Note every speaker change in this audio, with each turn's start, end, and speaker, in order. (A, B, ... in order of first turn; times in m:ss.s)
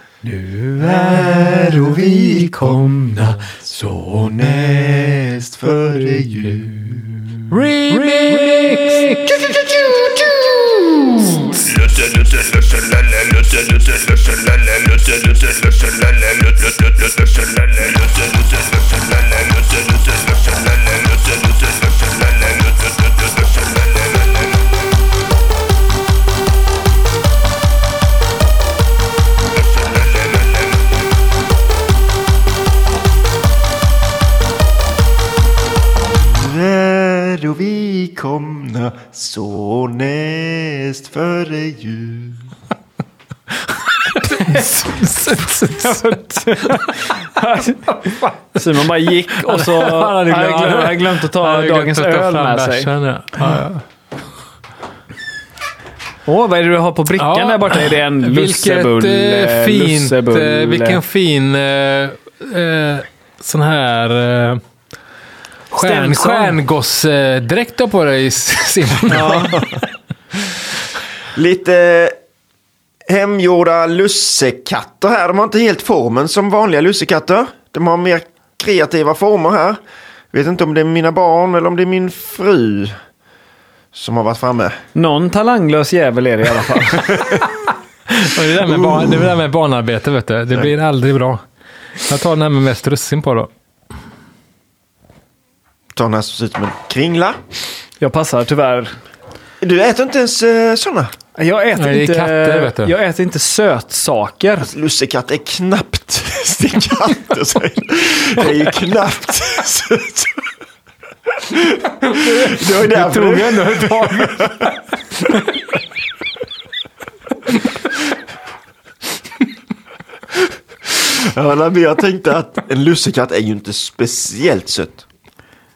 0:00.2-0:07.4 A
0:07.5-0:11.8 B
0:36.1-0:42.5 A
0:44.2-0:52.9 C
0:44.3-0:46.0 B
0:49.4-0:53.8 B
0:56.3-1:01.0 C
0:57.2-1:04.6 B
1:05.7-1:06.6 C
1:05.7-1:09.6 B
1:09.1-1:09.6 C
1:11.4-1:12.2 A
1:13.1-1:19.8 A
1:20.3-1:22.9 A
1:23.9-1:24.8 A
1:25.0-1:27.3 C
1:28.1-1:31.4 B
1:32.0-1:33.5 B
1:36.0-1:37.4 A
1:38.0-1:38.9 C
1:39.6-1:41.1 A
1:41.4-1:44.7 C
1:41.8-1:42.9 B
1:44.6-1:50.4 A
1:51.4-1:54.7 A
1:52.4-1:54.4 C
1:53.2-1:54.0 B
2:00.9-2:05.0 A